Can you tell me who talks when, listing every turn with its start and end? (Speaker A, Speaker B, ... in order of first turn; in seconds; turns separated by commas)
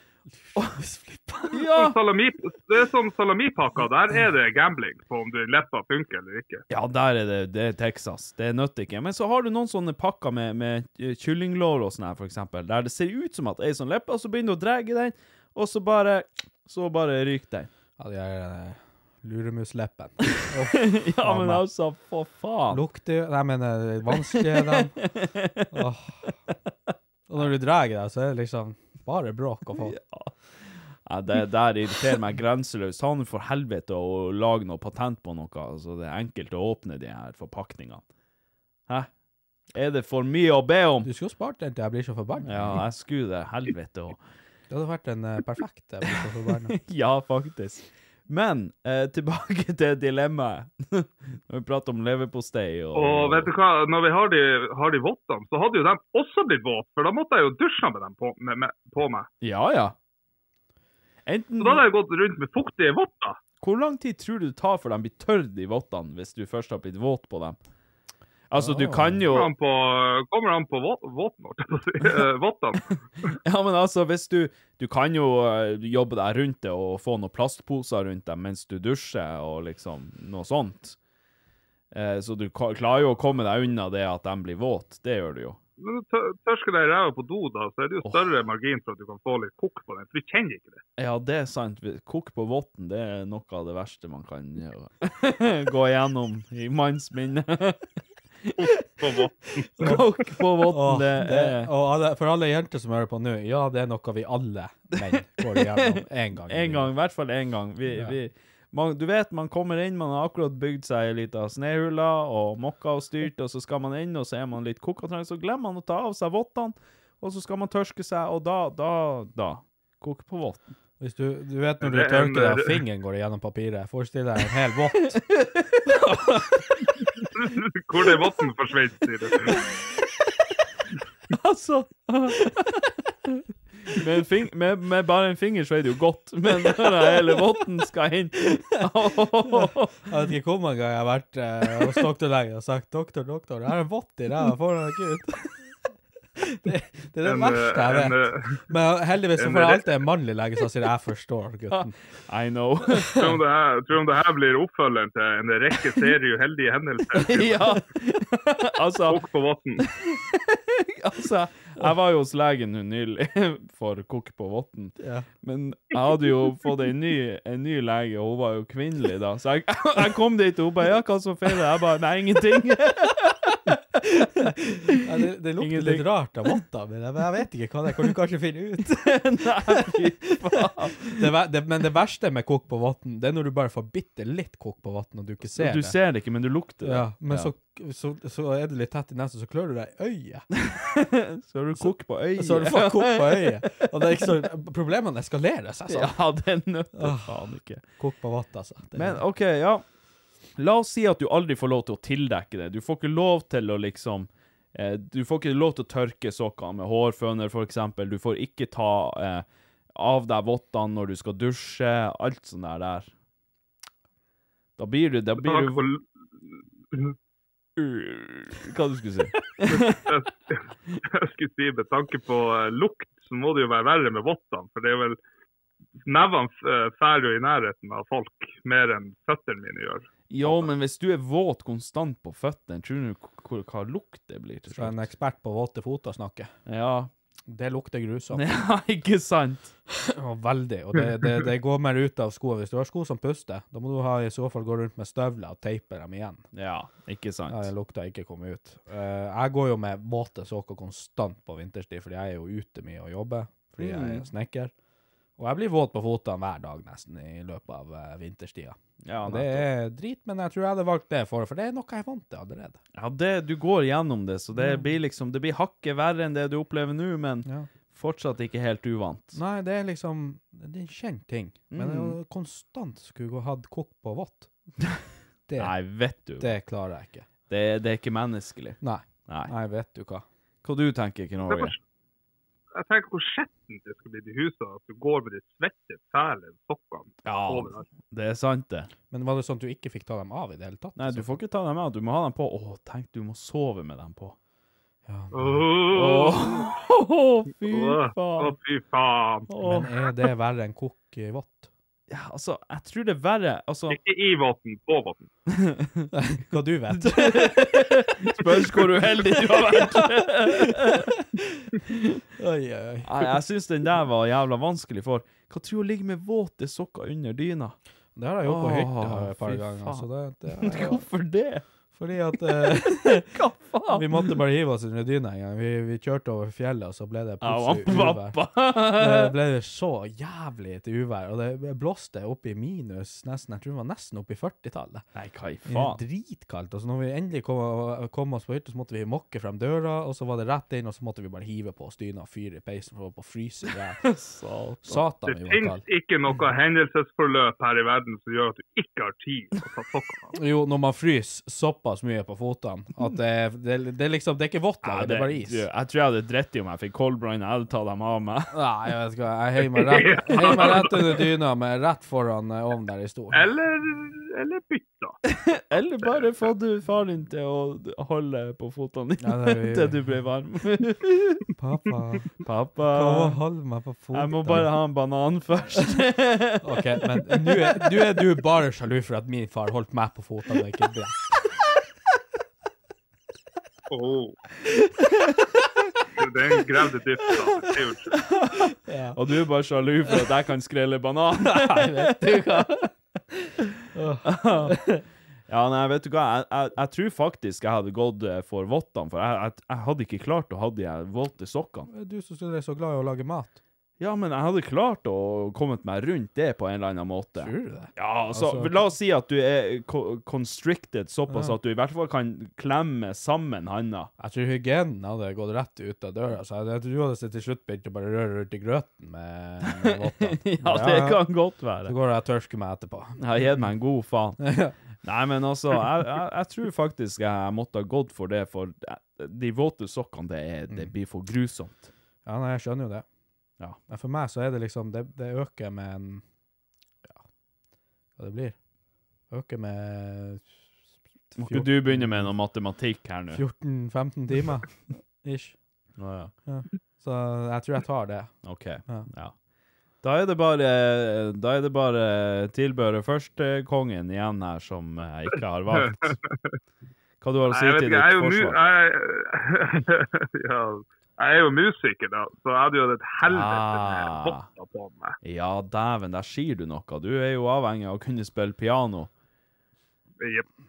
Speaker A: 0.5-1.7, Speaker B: 1.5-2.0, Speaker C: 1.7-6.6, Speaker B: 6.7-17.7, Speaker A: 18.0-21.6, Speaker B: 20.7-22.8, Speaker A: 22.7-25.0, Speaker B: 24.3-25.8, Speaker A: 25.7-26.3, Speaker A: 27.3-30.0, Speaker B: 29.8-30.3, Speaker B: 31.0-38.0, Speaker B: 39.7-41.1, Speaker A: 41.0-42.9, Speaker B: 42.4-44.2, Speaker A: 44.7-46.8, Speaker B: 46.7-53.5, Speaker C: 53.0-59.3, Speaker B: 59.4-60.0, Speaker B: 61.3-61.8, Speaker C: 61.6-63.4, Speaker B: 63.6-67.6, Speaker B: 68.5-69.5, Speaker A: 68.6-69.3, Speaker C: 69.3-72.8, Speaker B: 73.4-81.0, Speaker B: 81.9-85.6, Speaker C: 85.8-90.8, Speaker B: 88.0-88.3, Speaker B: 91.0-97.9, Speaker B: 98.4-98.7, Speaker C: 98.6-100.0, Speaker B: 99.8-101.7, Speaker A: 99.8-106.9, Speaker B: 105.4-120.7, Speaker A: 107.9-108.2, Speaker A: 121.0-125.3, Speaker C: 121.8-122.8, Speaker B: 125.5-126.5, Speaker C: 127.4-129.6, Speaker B: 131.3-140.0, Speaker A: 136.6-137.2, Speaker A: 139.5-145.6, Speaker A: 146.4-152.0, Speaker C: 147.2-148.6, Speaker C: 149.4-149.9, Speaker B: 151.7-153.4, Speaker C: 153.1-157.8, Speaker B: 157.2-159.2, Speaker C: 159.1-159.8, Speaker B: 159.8-175.0, Speaker A: 165.0-165.3, Speaker A: 174.9-180.1, Speaker B: 175.6-176.1, Speaker B: 178.9-181.2, Speaker A: 181.0-186.0, Speaker B: 185.5-187.5, Speaker A: 186.8-190.5, Speaker B: 190.6-194.2, Speaker A: 191.8-196.2, Speaker B: 195.9-197.8, Speaker A: 196.9-199.2, Speaker B: 198.9-199.8, Speaker B: 200.6-213.1, Speaker B: 214.8-215.8, Speaker C: 215.4-216.0, Speaker B: 217.8-220.0, Speaker C: 219.7-225.2, Speaker C: 226.0-230.7, Speaker B: 230.3-235.1, Speaker A: 234.7-236.5, Speaker B: 236.7-237.1, Speaker A: 237.5-238.5, Speaker B: 238.3-239.7, Speaker A: 239.9-246.5, Speaker B: 246.5-247.7, Speaker A: 247.5-254.7, Speaker B: 253.8-254.3, Speaker A: 255.4-262.8, Speaker B: 259.0-259.7, Speaker B: 262.9-269.4, Speaker A: 264.6-264.9, Speaker A: 267.4-267.7, Speaker A: 269.3-274.5, Speaker B: 271.7-272.2, Speaker A: 275.5-275.8, Speaker B: 275.6-276.5, Speaker A: 276.4-277.3, Speaker B: 277.5-279.5, Speaker A: 278.8-280.2, Speaker B: 280.6-281.8, Speaker C: 281.5-281.8, Speaker C: 282.8-287.9, Speaker B: 287.2-288.9, Speaker A: 289.1-291.4, Speaker B: 291.0-294.4, Speaker A: 295.1-295.7, Speaker C: 295.3-296.7, Speaker B: 295.9-298.6, Speaker C: 297.7-299.5, Speaker B: 299.5-300.0, Speaker A: 299.6-301.7, Speaker B: 302.1-304.0, Speaker C: 303.9-305.3, Speaker B: 305.5-306.1, Speaker A: 306.1-311.7, Speaker B: 306.9-311.1, Speaker A: 312.4-313.3, Speaker B: 313.0-317.8, Speaker A: 318.1-321.1, Speaker B: 318.4-321.6, Speaker A: 321.9-323.3, Speaker B: 322.6-324.4, Speaker A: 323.9-335.1, Speaker B: 327.4-329.3, Speaker B: 335.1-336.0, Speaker A: 335.7-344.1, Speaker B: 344.0-345.0, Speaker A: 344.8-345.9, Speaker C: 345.3-350.4, Speaker A: 350.3-355.7, Speaker B: 354.8-358.6, Speaker A: 358.5-363.5, Speaker C: 359.7-361.2, Speaker B: 360.4-360.8, Speaker C: 363.3-365.2, Speaker B: 365.3-371.4, Speaker C: 366.0-366.5, Speaker A: 369.2-370.0, Speaker A: 371.6-374.8, Speaker B: 372.4-373.4, Speaker B: 374.1-378.1, Speaker A: 376.6-381.3, Speaker C: 383.9-384.4, Speaker C: 386.2-388.2, Speaker B: 388.3-392.7, Speaker A: 388.9-389.2, Speaker A: 391.4-392.9, Speaker A: 393.9-395.0, Speaker B: 394.2-394.8, Speaker B: 395.5-401.9, Speaker A: 401.9-403.6, Speaker B: 404.0-414.1, Speaker A: 407.4-408.8, Speaker A: 411.3-411.6, Speaker A: 414.2-423.7, Speaker B: 419.6-421.9, Speaker B: 423.2-424.4, Speaker A: 424.4-424.8, Speaker B: 425.0-431.9, Speaker A: 432.2-433.1, Speaker A: 433.9-436.2, Speaker A: 438.2-438.6, Speaker A: 439.3-440.5, Speaker A: 441.3-442.4, Speaker B: 441.4-443.4, Speaker A: 443.3-445.6, Speaker B: 446.0-446.3, Speaker A: 446.4-449.1, Speaker B: 448.4-449.4, Speaker B: 450.0-456.2, Speaker C: 455.9-456.5, Speaker B: 457.2-458.6, Speaker C: 457.5-465.2, Speaker B: 463.2-464.5, Speaker B: 465.2-469.1, Speaker C: 470.2-470.5